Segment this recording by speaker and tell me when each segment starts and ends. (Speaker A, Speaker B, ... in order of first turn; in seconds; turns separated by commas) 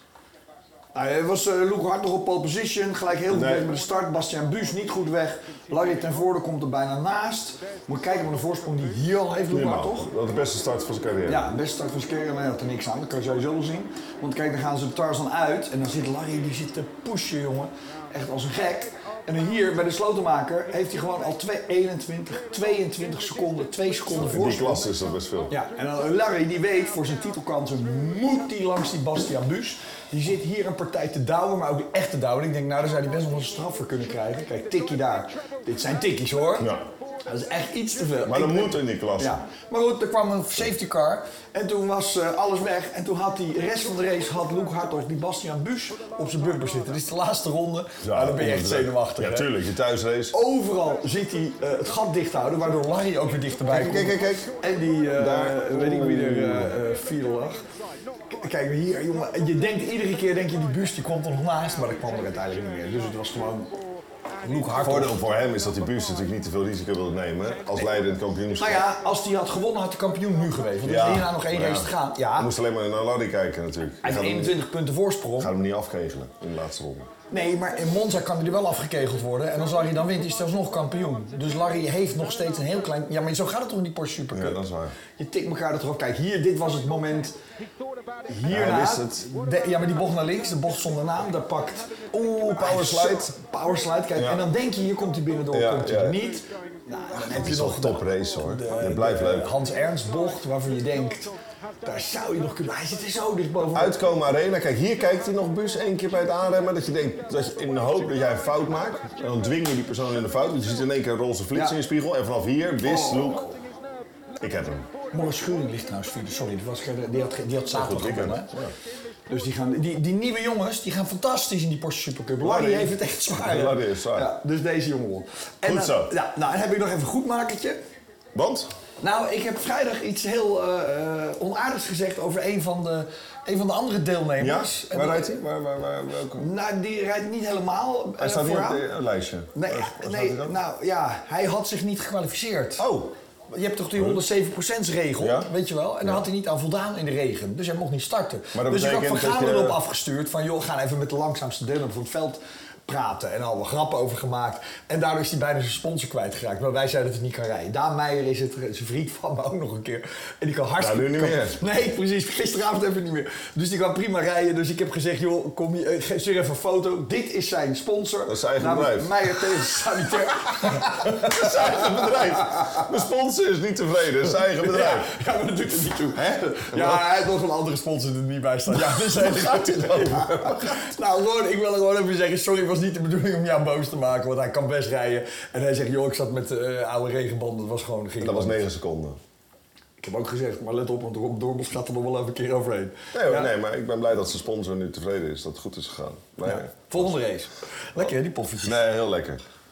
Speaker A: 0.9-10.1, Speaker B: 3.3-3.7, Speaker B: 9.5-11.5, Speaker A: 11.2-24.9, Speaker B: 24.1-25.5, Speaker A: 25.5-36.7, Speaker B: 36.6-36.9, Speaker A: 37.3-49.5, Speaker B: 38.2-39.4, Speaker B: 48.0-50.3, Speaker A: 50.3-57.6, Speaker B: 53.7-54.5, Speaker B: 55.1-56.7, Speaker A: 58.3-63.7, Speaker A: 64.4-65.2, Speaker B: 64.7-68.8, Speaker A: 68.6-72.5, Speaker B: 70.8-74.6, Speaker A: 74.0-75.5, Speaker B: 75.4-77.1, Speaker A: 77.3-84.6, Speaker B: 84.3-85.0, Speaker A: 85.1-87.4, Speaker A: 88.3-101.3, Speaker B: 88.5-89.3, Speaker B: 92.5-93.3, Speaker B: 94.2-94.5, Speaker B: 95.5-96.2, Speaker B: 97.1-99.5, Speaker A: 101.8-104.0, Speaker B: 103.7-113.5, Speaker A: 112.8-113.5, Speaker B: 114.4-114.9, Speaker A: 115.1-118.5, Speaker B: 117.7-118.7, Speaker A: 119.3-127.8, Speaker B: 122.4-124.3, Speaker B: 125.6-126.1, Speaker B: 128.3-128.7, Speaker A: 129.0-135.3, Speaker B: 134.4-136.5, Speaker A: 136.4-138.8, Speaker B: 138.2-140.6, Speaker A: 139.5-142.8, Speaker B: 142.8-143.1, Speaker A: 143.5-172.8, Speaker B: 143.9-144.2, Speaker B: 145.2-145.5, Speaker B: 148.5-149.8, Speaker B: 160.8-161.6, Speaker B: 168.3-169.4, Speaker B: 171.1-175.1, Speaker A: 174.6-188.7, Speaker B: 176.7-177.0, Speaker B: 178.9-180.8, Speaker B: 188.2-189.2, Speaker A: 190.0-193.5, Speaker B: 193.1-197.2, Speaker A: 196.4-198.8, Speaker B: 198.6-199.4